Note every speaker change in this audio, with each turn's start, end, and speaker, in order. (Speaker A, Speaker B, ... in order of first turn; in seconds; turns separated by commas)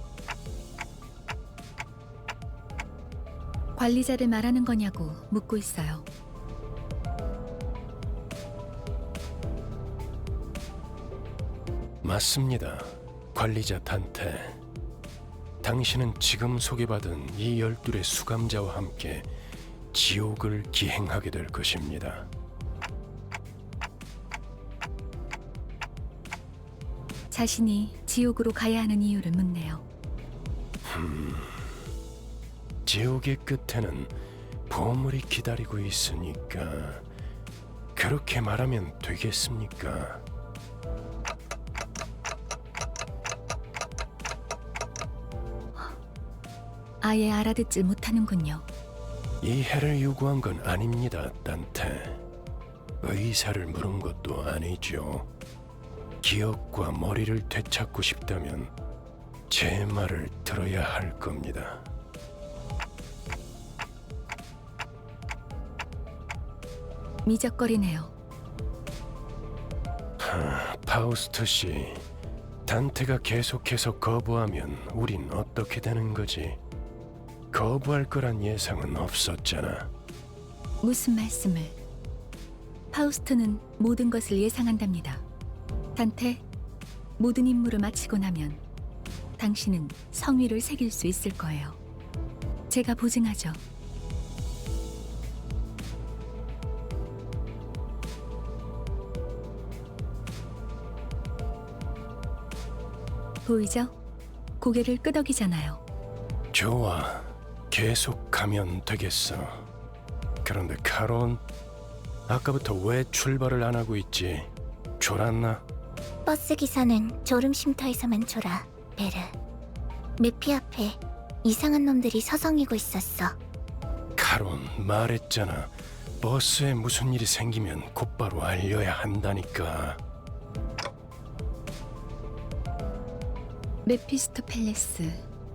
Speaker A: 3.8-6.1, Speaker B: 12.0-14.6, Speaker B: 15.6-19.3, Speaker B: 19.9-22.3, Speaker A: 27.3-29.8, Speaker B: 30.9-31.7, Speaker B: 32.9-34.1, Speaker B: 34.7-37.0, Speaker B: 38.0-40.2, Speaker A: 47.0-48.7, Speaker B: 49.4-52.2, Speaker B: 53.0-55.3, Speaker B: 56.2-58.7, Speaker B: 59.5-61.9, Speaker A: 67.2-68.1, Speaker B: 70.2-72.0, Speaker B: 72.7-76.6, Speaker B: 77.5-79.9, Speaker A: 80.8-81.8, Speaker A: 82.9-85.2, Speaker A: 86.0-86.4, Speaker A: 87.2-88.6, Speaker A: 89.4-91.8, Speaker A: 92.7-93.6, Speaker A: 103.4-104.0, Speaker A: 104.6-105.8, Speaker B: 106.5-109.7, Speaker B: 110.4-111.4, Speaker B: 112.3-115.6, Speaker C: 116.3-119.3, Speaker C: 120.2-123.3, Speaker B: 124.2-130.0, Speaker A: 133.8-135.2